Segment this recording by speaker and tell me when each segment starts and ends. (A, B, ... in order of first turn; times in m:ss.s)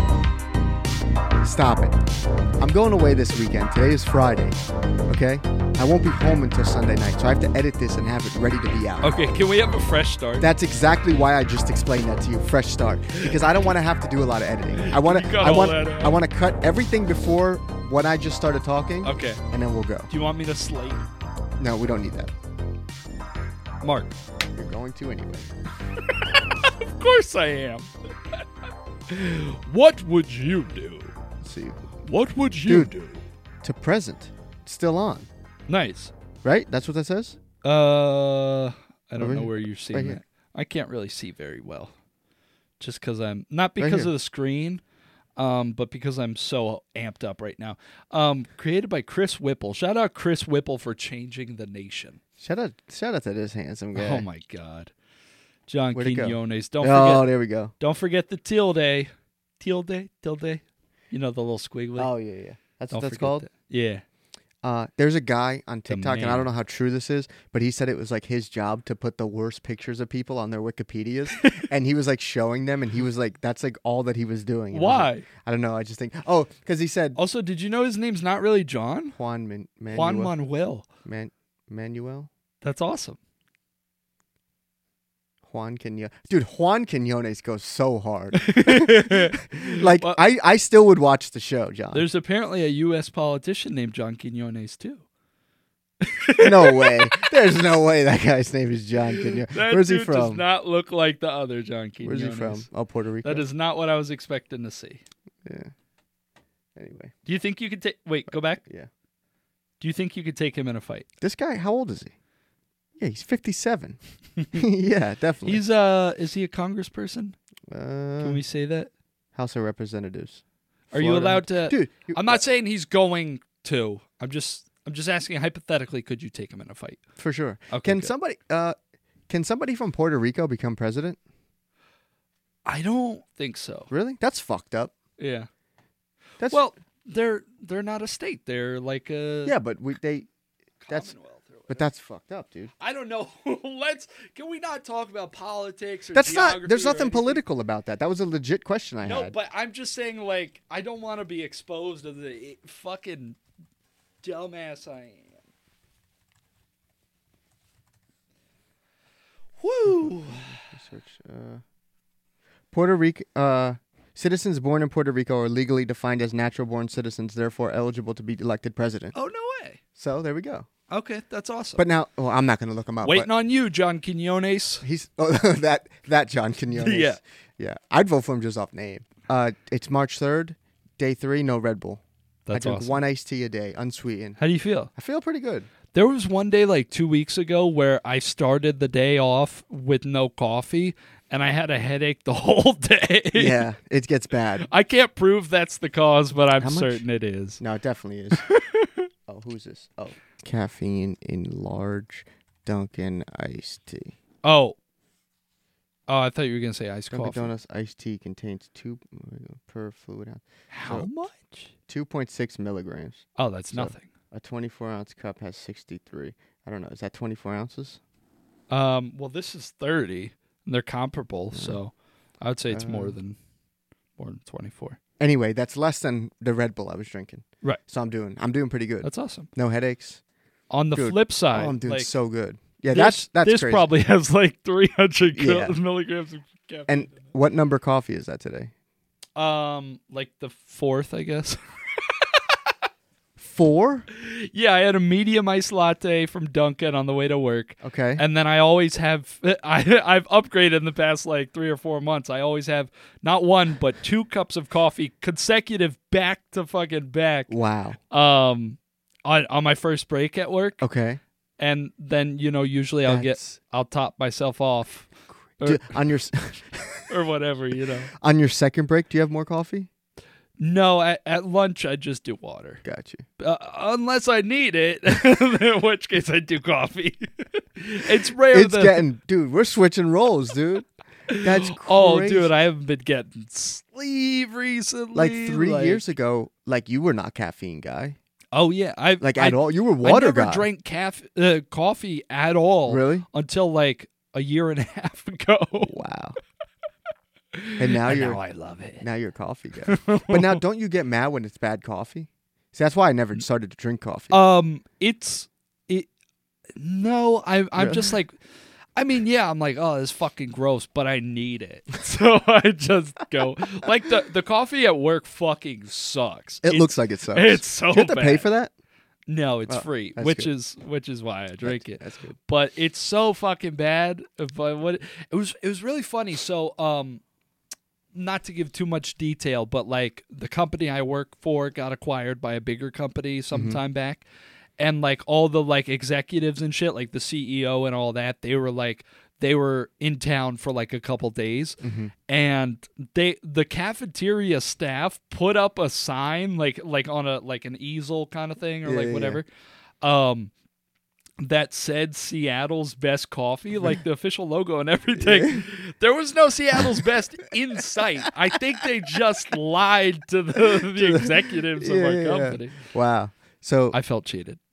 0:01.4-0:02.0 A
0:02.6-0:04.6 A
0:05.1-0:09.1 A
0:09.0-0:10.5 B
0:10.4-0:20.1 A
0:13.1-0:13.4 B
0:14.8-0:16.2 B
0:19.0-0:19.4 B
0:20.1-0:21.0 B
0:21.6-0:22.3 A
0:23.8-0:24.1 B
0:24.5-0:25.5 A
0:26.0-0:27.9 B
0:29.1-0:31.1 B
0:31.4-0:31.8 A
0:32.0-0:33.2 B
0:32.6-0:32.9 A
0:33.6-0:35.3 A
0:35.7-0:36.1 B
0:36.4-0:37.4 A
0:37.6-0:41.9 B
0:39.2-0:40.2 A
0:42.8-0:44.8 B
0:43.8-0:44.1 A
0:45.4-0:52.2 B
0:52.4-0:54.2 A
0:53.9-0:54.9 B
0:55.7-1:02.1 B
0:55.9-0:57.7 A
1:02.0-1:03.5 A
1:02.9-1:04.0 B
1:04.6-1:17.2 A
1:05.9-1:06.5 B
1:11.4-1:11.7 B
1:14.7-1:15.2 B
1:17.2-1:19.2 B
1:19.1-1:20.3 A
1:19.9-1:20.8 B
1:21.0-1:22.3 A
1:22.6-1:23.2 B
1:25.4-1:32.0 A
1:28.4-1:30.2 B
1:31.9-1:35.0 B
1:36.0-1:37.2 B
1:36.4-1:40.4 A
1:39.1-1:42.6 B
1:42.0-1:43.4 A
1:43.2-1:45.0 B
1:45.4-1:45.7 A
1:46.8-1:47.1 A
1:47.2-1:48.6 B
1:49.8-1:51.1 B
1:51.2-1:52.1 A
1:53.0-1:54.0 A
1:54.5-1:55.6 A
1:55.4-1:57.4 B
1:57.7-1:58.4 A
1:58.2-1:58.9 B
1:59.3-2:00.4 A
2:00.9-2:02.4 A
2:00.9-2:07.0 B
2:07.2-2:08.8 A
2:07.7-2:08.1 B
2:09.3-2:11.2 A
2:12.6-2:13.9 B
2:13.9-2:14.9 A
2:15.2-2:15.5 B
2:16.5-2:19.6 B
2:19.4-2:20.3 A
2:20.8-2:21.8 B
2:21.7-2:22.7 A
2:22.8-2:27.4 B
2:26.1-2:29.3 A
2:29.0-2:33.4 B
2:34.2-2:35.3 B
2:39.6-2:40.6 B
2:39.9-2:41.6 A
2:42.7-2:49.1 A
2:49.1-2:49.8 B
2:50.0-2:50.7 A
2:50.9-2:51.8 B
2:51.8-2:53.3 A
2:53.0-2:54.8 B
2:54.8-3:02.0 A
2:56.7-2:57.2 B
3:02.5-3:03.0 B
3:02.5-3:04.4 A
3:04.4-3:04.9 B
3:04.9-3:05.7 A
3:05.9-3:13.6 B
3:13.3-3:14.7 A
3:14.6-3:17.6 B
3:16.6-3:17.0 A
3:17.6-3:18.4 A
3:18.4-3:19.0 B
3:19.3-3:24.2 A
3:24.4-3:24.8 B
3:26.1-3:27.5 B
3:27.1-3:31.1 A
3:30.7-3:31.7 B
3:31.9-3:38.0 A
3:33.4-3:34.1 B
3:38.7-3:43.4 B
3:41.5-3:41.8 A
3:42.7-3:43.2 A
3:44.2-3:45.0 B
3:45.2-3:50.2 A
3:49.0-3:49.5 B
3:50.7-3:52.1 B
3:50.9-3:53.8 A
3:52.9-3:57.2 B
3:55.3-3:55.8 A
3:56.9-3:58.7 A
3:59.4-4:02.7 B
4:03.4-4:04.1 A
4:04.1-4:17.5 B
4:07.8-4:08.2 A
4:17.5-4:18.0 A
4:18.1-4:20.8 B
4:20.8-4:21.2 A
4:21.6-4:25.1 B
4:23.0-4:23.6 A
4:25.6-4:25.9 B
4:25.6-4:27.0 A
4:27.1-4:28.1 B
4:28.2-4:29.9 A
4:30.6-4:32.8 B
4:32.8-4:33.2 A
4:33.4-4:39.0 B
4:38.5-4:42.5 A
4:41.3-4:46.0 B
4:45.1-4:48.2 A
4:48.5-4:56.0 B
4:49.2-4:50.7 A
4:52.9-4:53.2 A
4:55.9-4:56.4 A
4:57.5-4:59.0 B
4:57.8-4:58.4 A
4:59.0-5:04.4 A
4:59.8-5:00.6 B
5:04.3-5:06.1 B
5:06.8-5:08.4 B
5:07.8-5:08.1 A
5:09.0-5:18.5 B
5:16.6-5:18.7 A
5:19.3-5:27.2 B
5:19.7-5:20.5 A
5:21.6-5:22.4 A
5:28.1-5:34.2 B
5:33.5-5:33.8 A
5:34.8-5:49.5 B
5:41.8-5:42.1 A
5:48.8-5:49.4 A
5:50.0-5:50.5 B
5:51.4-6:02.8 B
5:55.2-5:55.6 A
6:00.8-6:04.0 A
6:03.9-6:04.6 B